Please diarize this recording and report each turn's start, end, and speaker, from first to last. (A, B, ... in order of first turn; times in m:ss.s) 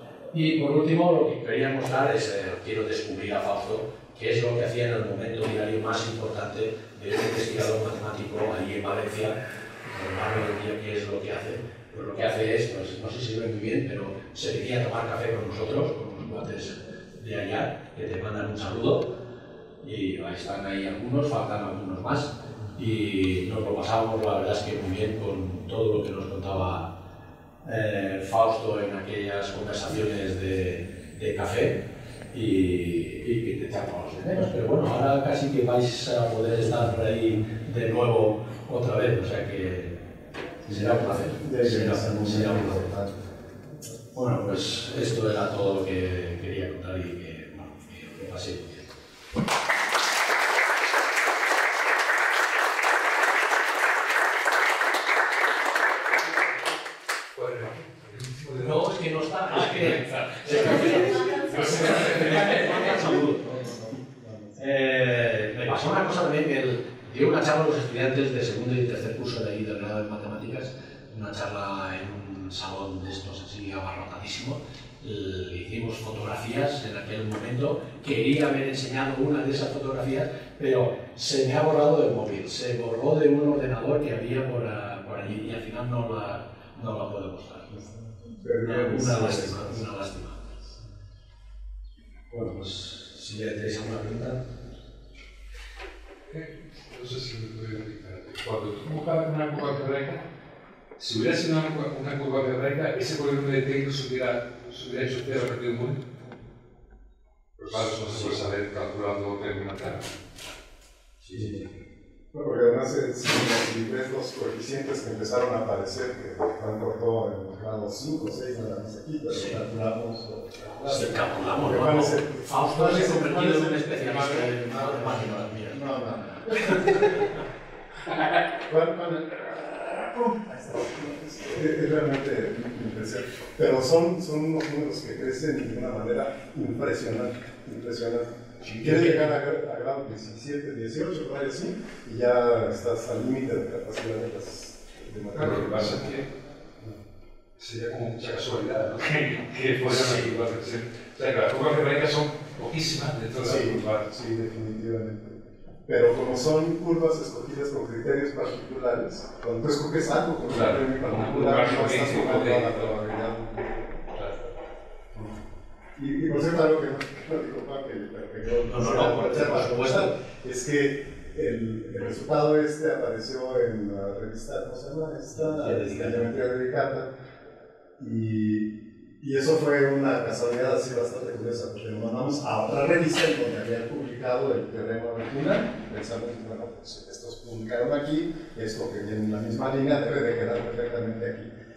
0:00.3-0:19.2 A
0:19.8-0:26.9 A
0:27.6-0:40.0 A
0:40.7-0:42.9 A
0:40.7-0:43.2 B
0:44.1-0:48.9 A
0:57.3-0:58.9 C
0:58.6-1:03.7 A
0:59.5-1:02.7 C
1:02.9-1:04.7 B
1:04.6-1:27.7 A
1:27.7-1:29.8 B
1:28.6-1:30.4 A
1:32.3-1:34.4 A
1:36.3-1:40.2 C
1:41.0-1:46.0 C
1:47.6-1:50.2 C
1:47.7-1:48.4 A
1:51.2-1:51.7 C
1:52.3-2:07.1 B
1:59.3-1:59.6 A
2:00.8-2:07.4 A
2:08.6-2:26.1 B
2:18.8-2:19.2 C
2:25.3-2:26.3 C
2:27.6-2:34.0 C
2:29.8-2:30.3 A
2:33.4-2:44.5 B
2:40.5-2:42.9 C
2:46.0-2:57.1 B
2:48.6-2:50.1 A
2:55.3-2:56.3 A
2:58.0-3:11.5 B